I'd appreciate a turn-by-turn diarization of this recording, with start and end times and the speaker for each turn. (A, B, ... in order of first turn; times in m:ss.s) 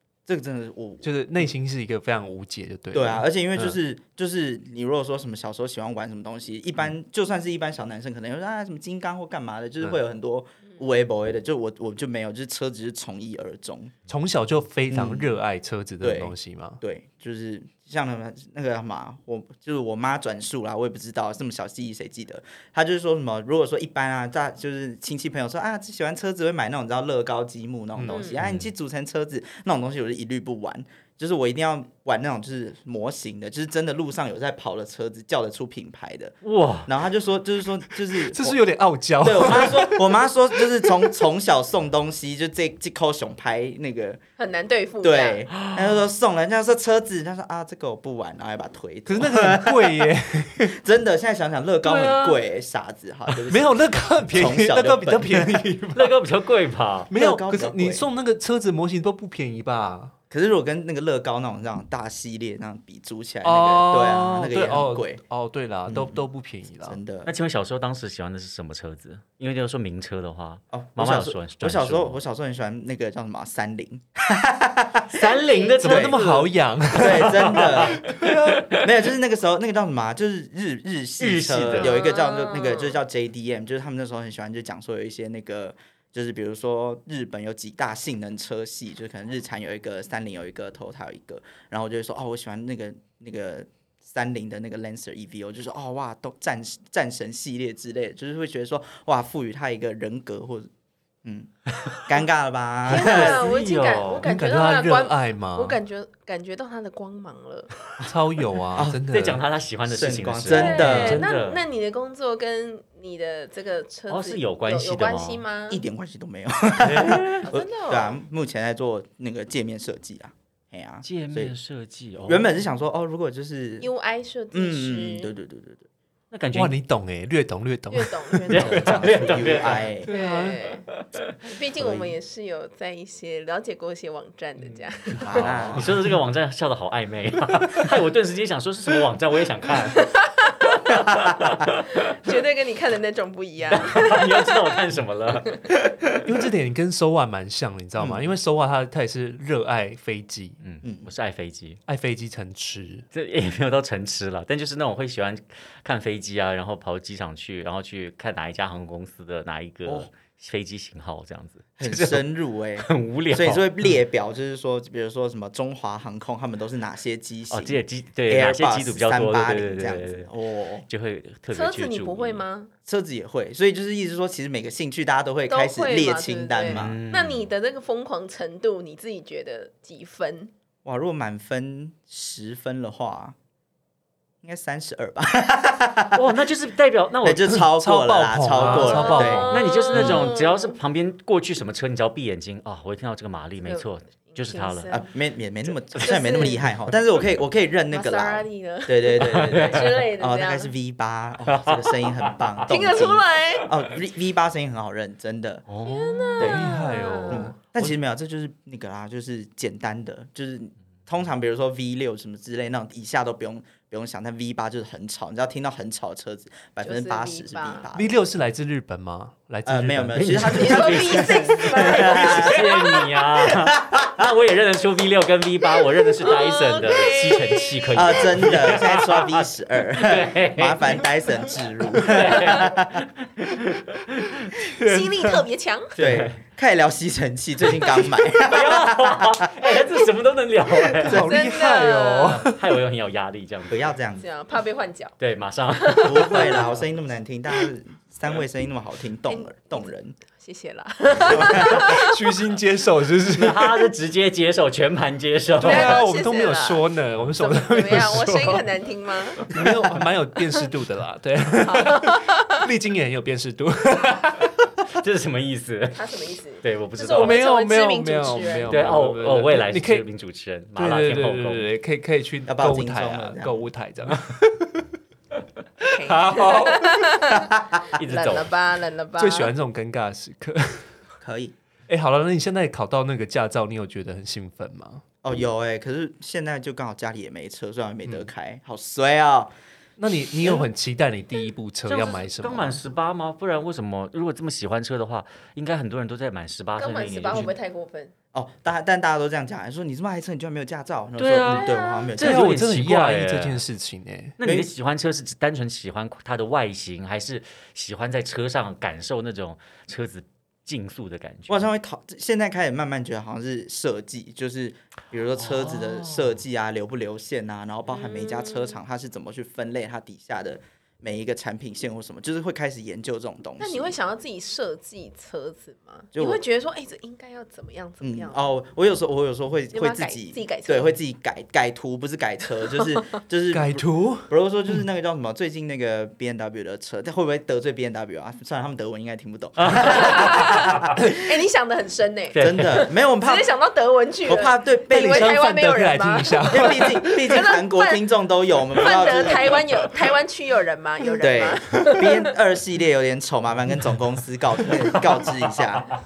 0:00.3-0:01.1 A
0:01.0-0:03.8 B
0:02.9-0:13.9 A
0:14.1-0:16.8 B
0:14.9-0:15.4 A
0:16.0-0:38.6 A
0:28.0-0:28.2 B
0:28.1-0:28.4 C
0:28.4-0:28.7 D
0:36.4-0:36.9 D
0:38.1-0:40.2 B
0:39.2-0:44.2 A
0:44.4-0:45.4 C
0:45.0-0:53.8 A
0:45.6-0:46.0 D
0:49.1-0:50.8 B
0:51.8-0:52.4 B
0:53.4-0:56.2 B
0:54.3-0:55.6 A
0:55.9-0:57.1 D
0:57.1-1:00.1 B
0:57.1-0:58.0 A
1:00.3-1:05.2 A
1:03.4-1:07.0 B
1:05.9-1:06.2 A
1:06.8-1:07.3 A
1:07.2-1:12.2 D
1:10.7-1:15.3 A
1:15.1-1:18.8 D
1:15.3-1:15.8 C
1:15.8-1:16.2 A
1:15.8-1:18.7 B
1:16.9-1:18.1 A
1:18.7-1:40.7 A
1:21.2-1:22.0 D
1:21.8-1:23.0 C
1:41.2-1:43.4 A
1:42.9-1:44.3 D
1:42.9-1:47.7 C
1:44.2-1:45.8 B
1:48.0-1:49.4 B
1:48.7-1:49.0 A
1:49.1-1:51.6 D
1:49.9-1:51.2 A
1:50.5-1:55.8 C
1:54.1-1:55.4 D
1:55.7-2:01.5 A
1:56.8-1:57.5 D
1:57.4-1:58.2 C
2:01.0-2:02.5 D
2:02.2-2:03.9 A
2:03.8-2:05.3 C
2:04.5-2:05.9 A
2:06.3-2:06.8 D
2:06.5-2:09.0 B
2:07.9-2:09.4 C
2:08.5-2:09.9 D
2:08.6-2:10.1 A
2:10.0-2:10.6 B
2:10.1-2:10.8 C
2:11.4-2:15.6 C
2:11.8-2:12.1 A
2:15.2-2:15.9 A
2:15.3-2:20.1 D
2:20.0-2:20.9 C
2:20.9-2:21.8 D
2:21.9-2:24.7 C
2:23.7-2:25.6 D
2:26.2-2:30.6 B
2:28.0-2:28.3 A
2:30.6-2:31.8 D
2:30.8-2:31.1 A
2:31.8-2:33.0 B
2:33.1-2:43.6 D
2:41.8-2:50.8 A
2:47.5-2:50.3 D
2:50.9-2:52.4 D
2:51.5-2:52.7 C
2:52.8-2:57.0 A
2:55.5-3:00.5 C
2:56.6-2:57.5 D
3:00.8-3:03.3 A
3:04.4-3:06.4 A
3:06.1-3:07.5 D
3:07.2-3:10.2 A
3:07.5-3:10.2 B
3:08.6-3:10.8 C
3:08.6-3:15.0 D
3:13.6-3:15.1 C
3:14.9-3:25.6 A
3:16.0-3:16.6 C
3:17.9-3:20.7 C
3:19.2-3:20.0 D
3:21.4-3:22.6 D
3:22.7-3:23.7 C
3:25.7-3:27.2 D
3:25.8-3:27.5 C
3:26.4-3:26.7 A
3:26.4-3:27.9 B
3:27.3-3:38.1 A
3:36.8-3:37.8 C
3:37.9-3:40.6 B
3:39.6-3:42.7 A
3:40.1-3:51.0 D
3:40.4-3:43.0 C
3:43.4-3:44.3 A
3:46.2-3:48.3 C
3:47.9-3:53.0 A
3:51.9-3:54.5 D
3:54.6-3:55.4 B
3:54.8-3:55.9 C
3:56.0-3:56.4 D
3:56.0-3:59.5 A
3:58.4-4:01.3 D
4:01.0-4:02.6 B
4:01.0-4:01.3 A
4:01.1-4:02.5 C
4:02.4-4:03.9 D
4:03.7-4:04.2 A
4:04.2-4:05.1 C
4:05.2-4:06.7 D
4:05.8-4:06.7 C
4:06.0-4:10.2 A
4:09.3-4:12.2 C
4:11.2-4:11.8 A
4:11.5-4:13.9 B
4:13.3-4:16.0 D
4:15.6-4:16.9 C
4:15.6-4:18.7 B
4:17.4-4:19.5 C
4:19.4-4:24.6 B
4:21.6-4:22.6 C
4:24.9-4:26.1 D
4:25.9-4:28.9 C
4:26.6-4:27.4 D
4:27.1-4:30.0 B
4:28.7-4:31.7 D
4:30.8-4:34.9 B
4:32.5-4:33.6 A
4:35.8-4:39.5 C
4:35.8-4:37.2 B
4:38.0-4:38.5 D
4:39.2-4:40.9 B
4:41.2-4:41.5 A
4:41.9-4:45.0 B
4:45.2-4:49.5 A
4:50.0-4:52.8 B
4:51.8-4:57.5 D
4:56.8-4:58.1 C
4:58.3-5:02.6 A
5:01.2-5:03.6 D
5:01.5-5:02.1 C
5:02.2-5:04.4 B
5:04.4-5:11.7 D
5:04.4-5:04.7 A
5:11.5-5:24.0 A
5:15.4-5:16.4 D
5:17.9-5:18.8 C
5:23.6-5:28.4 C
5:26.1-5:26.4 A
5:28.0-5:40.9 A
5:29.7-5:31.0 C
5:33.5-5:34.3 B
5:39.6-5:40.6 D
5:39.8-5:48.0 C
5:42.3-5:42.8 D
5:42.4-5:43.5 A
5:44.2-5:45.4 A
5:44.9-5:47.2 B
5:46.5-5:49.7 A
5:48.8-5:52.3 C
5:51.2-5:55.9 A